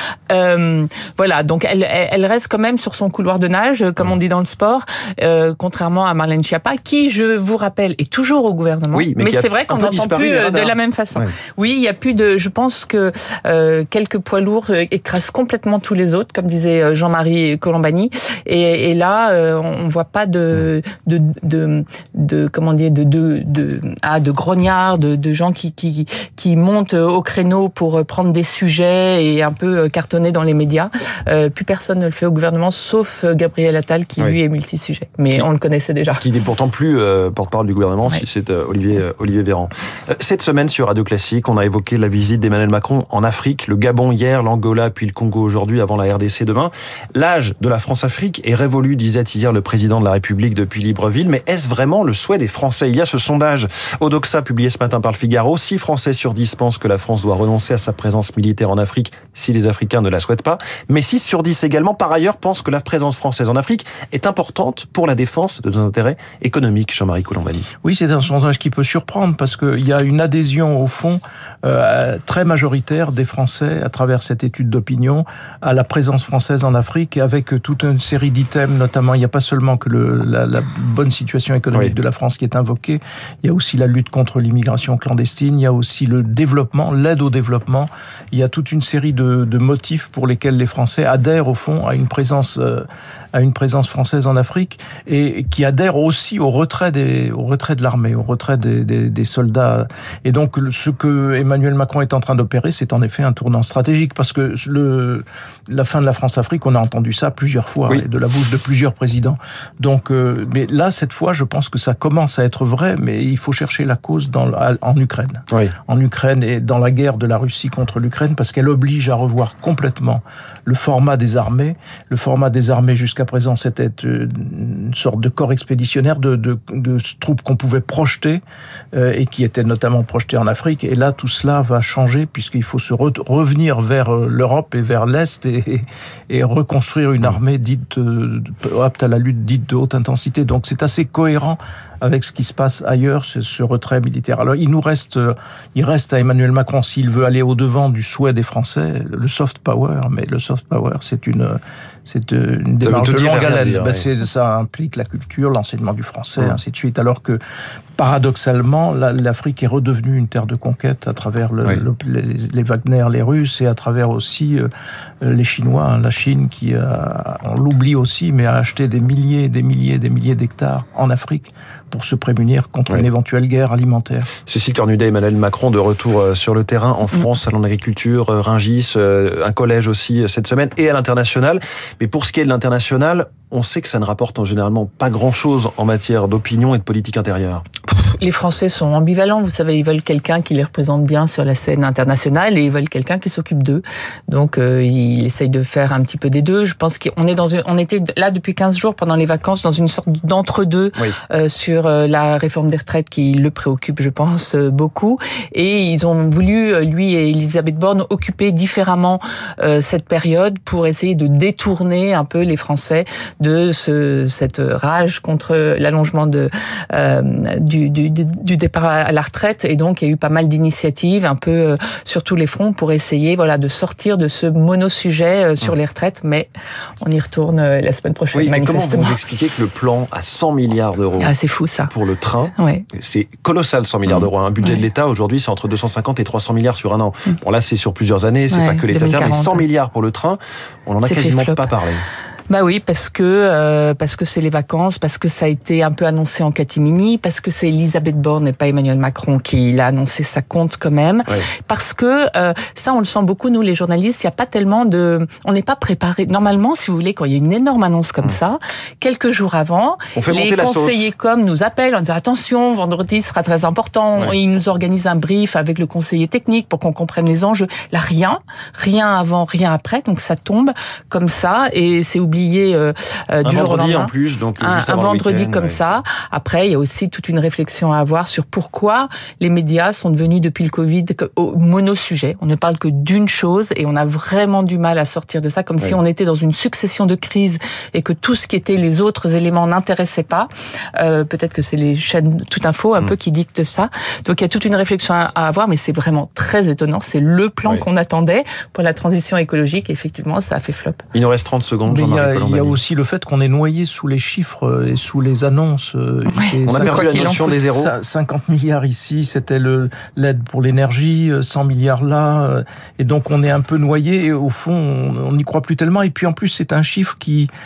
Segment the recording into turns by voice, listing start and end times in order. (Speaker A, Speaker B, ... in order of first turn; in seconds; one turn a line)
Speaker A: 0.3-36.3
Speaker B: 8.9-11.3
Speaker B: 36.2-67.7
Speaker C: 67.8-128.4
Speaker C: 128.9-157.4
Speaker B: 152.8-154.1
Speaker C: 158.0-164.7
Speaker C: 165.2-174.3
Speaker B: 174.4-187.7
Speaker A: 187.9-226.5
Speaker A: 227.0-229.2
Speaker B: 228.3-231.3
Speaker A: 231.2-231.9
Speaker B: 231.9-242.0
Speaker A: 232.6-232.9
Speaker A: 238.5-239.6
Speaker A: 241.0-241.7
Speaker A: 242.5-301.0
Speaker B: 260.1-261.1
Speaker B: 273.4-275.8
Speaker B: 301.1-302.8
Speaker C: 301.9-317.5
Speaker A: 306.3-307.5
Speaker B: 306.7-307.9